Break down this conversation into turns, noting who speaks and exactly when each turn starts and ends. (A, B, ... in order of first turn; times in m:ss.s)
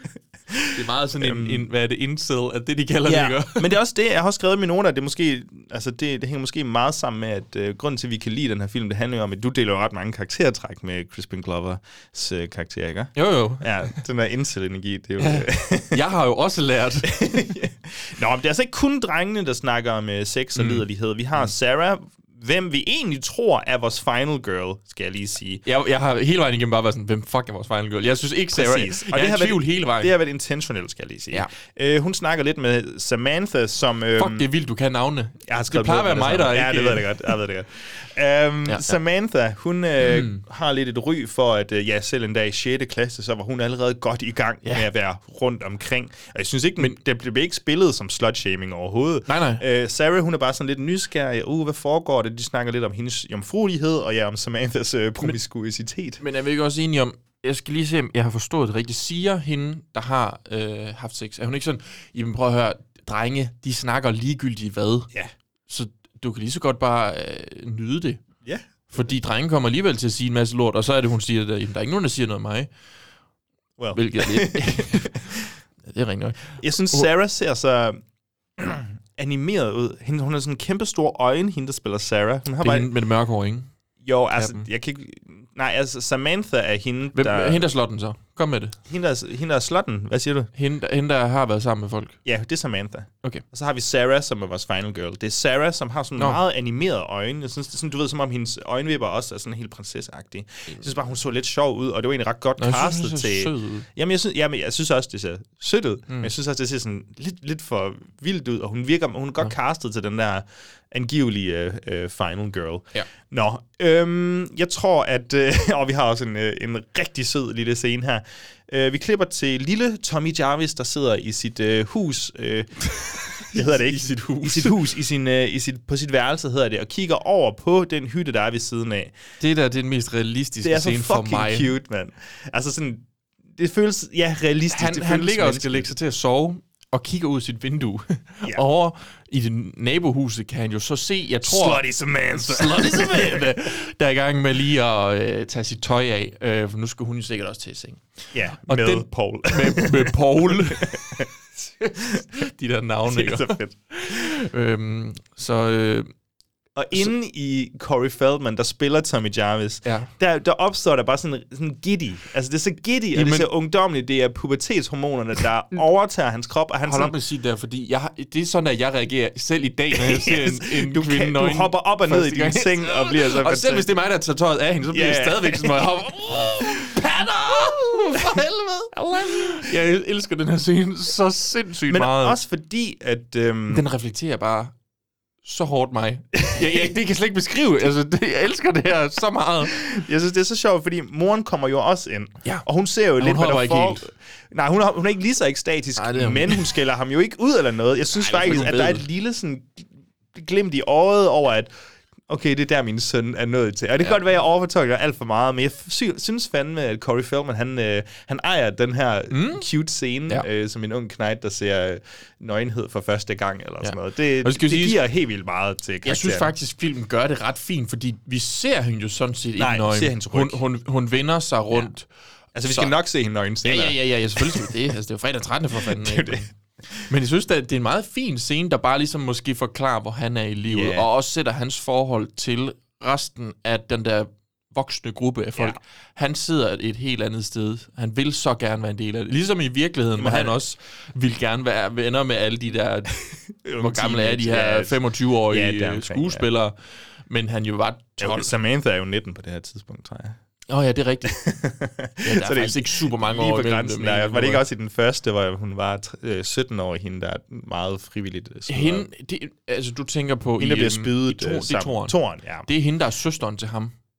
0:00.5-0:01.6 A
0:00.7-0:03.7 B
0:03.0-0:16.0 A
0:13.2-0:14.0 B
0:15.2-0:17.2 B
0:17.0-0:25.6 A
0:20.5-0:20.8 B
0:25.6-0:30.1 B
0:28.5-0:34.5 A
0:34.2-0:37.3 B
0:35.5-0:56.2 A
0:38.7-0:39.0 B
0:40.0-0:40.4 B
0:49.3-0:49.6 B
0:56.2-1:05.1 B
1:05.7-1:08.2 B
1:08.9-1:12.7 B
1:13.8-1:15.5 A
1:13.9-1:17.1 B
1:16.6-1:18.0 A
1:18.6-1:22.9 A
1:22.6-1:23.7 B
1:24.0-1:27.6 A
1:24.4-1:24.6 B
1:27.1-1:28.8 B
1:28.9-1:30.5 A
1:30.5-1:32.2 B
1:32.2-2:09.1 A
1:42.6-1:43.8 B
2:03.0-2:04.8 B
2:09.4-2:11.7 B
2:10.6-2:15.9 A
2:14.7-2:28.0 B
2:21.4-2:23.5 A
2:28.3-2:31.3 A
2:28.6-2:31.2 B
2:31.8-2:36.1 B
2:32.0-2:32.2 A
2:33.1-2:33.8 A
2:36.8-2:47.1 A
2:39.8-2:40.1 B
2:43.1-2:43.5 B
2:46.8-3:02.4 B
2:49.9-2:53.9 A
2:54.9-2:56.9 A
2:58.9-2:59.7 A
3:01.9-3:03.8 A
3:03.7-3:04.7 B
3:05.4-3:09.8 B
3:06.4-3:06.9 A
3:09.6-3:21.7 A
3:13.2-3:14.0 B
3:16.0-3:16.7 B
3:18.1-3:19.0 B
3:22.3-3:36.5 A
3:29.3-3:29.7 B
3:33.8-3:35.0 B
3:36.0-3:42.1 B
3:39.6-3:40.6 A
3:42.5-3:44.7 A
3:42.7-3:42.9 B
3:43.6-3:46.5 B
3:45.8-3:47.0 A
3:47.1-4:03.1 B
3:50.7-3:51.1 A
4:00.2-4:00.6 A
4:03.6-4:06.4 A
4:03.8-4:06.7 B
4:07.3-4:08.5 B
4:08.2-4:10.4 A
4:10.7-4:11.4 B
4:11.2-4:19.1 A
4:12.2-4:14.6 B
4:18.7-4:23.9 B
4:20.6-4:22.7 A